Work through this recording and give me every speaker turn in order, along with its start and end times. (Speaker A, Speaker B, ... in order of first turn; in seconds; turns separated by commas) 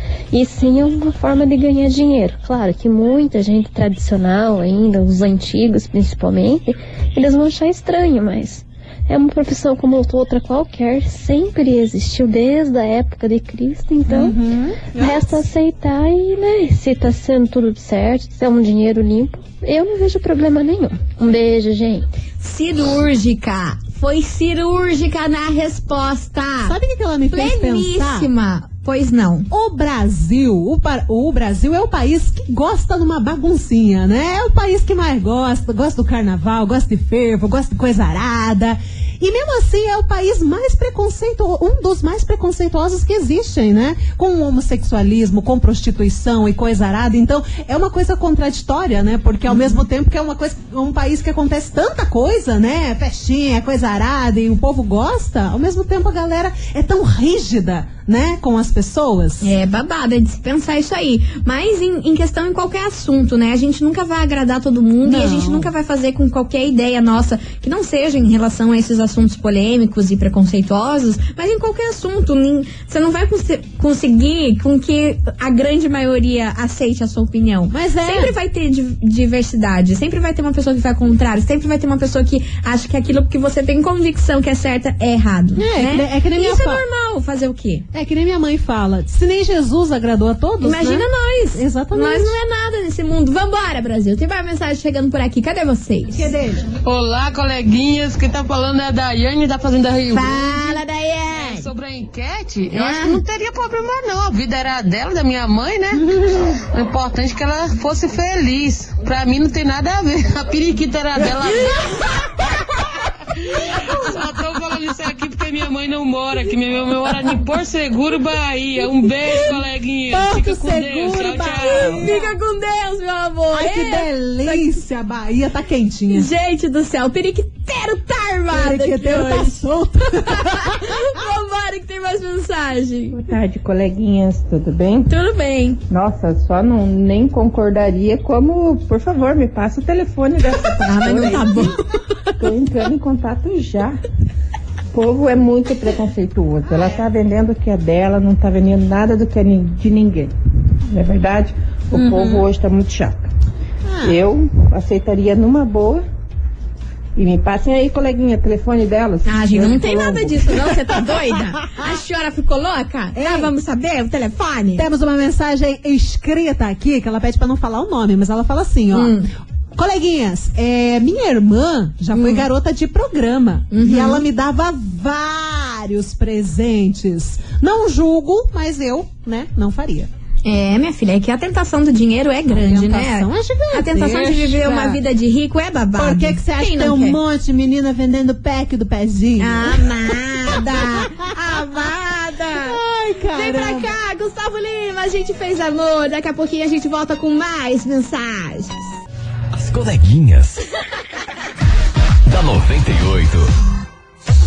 Speaker A: 0.3-14.4, Speaker B: 14.1-15.4, Speaker A: 14.9-22.1, Speaker C: 22.4-26.8, Speaker B: 26.6-28.3, Speaker C: 27.3-29.5, Speaker B: 29.5-59.5, Speaker C: 49.5-49.8, Speaker C: 59.4-87.9, Speaker B: 65.0-65.7, Speaker B: 77.7-78.3, Speaker B: 85.6-86.8, Speaker B: 87.9-92.4, Speaker C: 90.6-96.3, Speaker B: 96.1-96.6, Speaker D: 96.8-100.4, Speaker C: 100.1-101.7, Speaker D: 101.4-112.3, Speaker C: 102.7-103.2, Speaker B: 106.0-106.3, Speaker D: 113.7-122.1, Speaker B: 120.1-122.2, Speaker C: 121.6-124.8, Speaker B: 123.5-126.3, Speaker C: 126.1-129.7, Speaker B: 128.5-131.0, Speaker C: 130.2-133.2, Speaker E: 133.1-135.1, Speaker C: 135.1-135.8, Speaker E: 135.9-141.8, Speaker C: 140.8-141.8, Speaker E: 142.4-144.0, Speaker E: 144.9-150.3, Speaker B: 146.7-147.0, Speaker E: 150.9-153.2, Speaker C: 151.9-152.4, Speaker B: 153.9-154.2, Speaker E: 154.0-156.0, Speaker E: 157.2-160.8, Speaker C: 159.2-164.9, Speaker B: 163.2-163.5, Speaker B: 164.8-169.2, Speaker C: 168.9-169.3, Speaker B: 169.7-180.1, Speaker C: 172.1-172.5, Speaker C: 173.7-174.2, Speaker C: 180.4-187.2, Speaker B: 182.5-185.0, Speaker B: 186.0-189.9, Speaker C: 189.4-192.8, Speaker B: 190.5-191.1, Speaker B: 191.6-191.9, Speaker B: 192.5-193.9, Speaker C: 193.3-198.9, Speaker F: 199.5-200.6, Speaker F: 202.2-203.5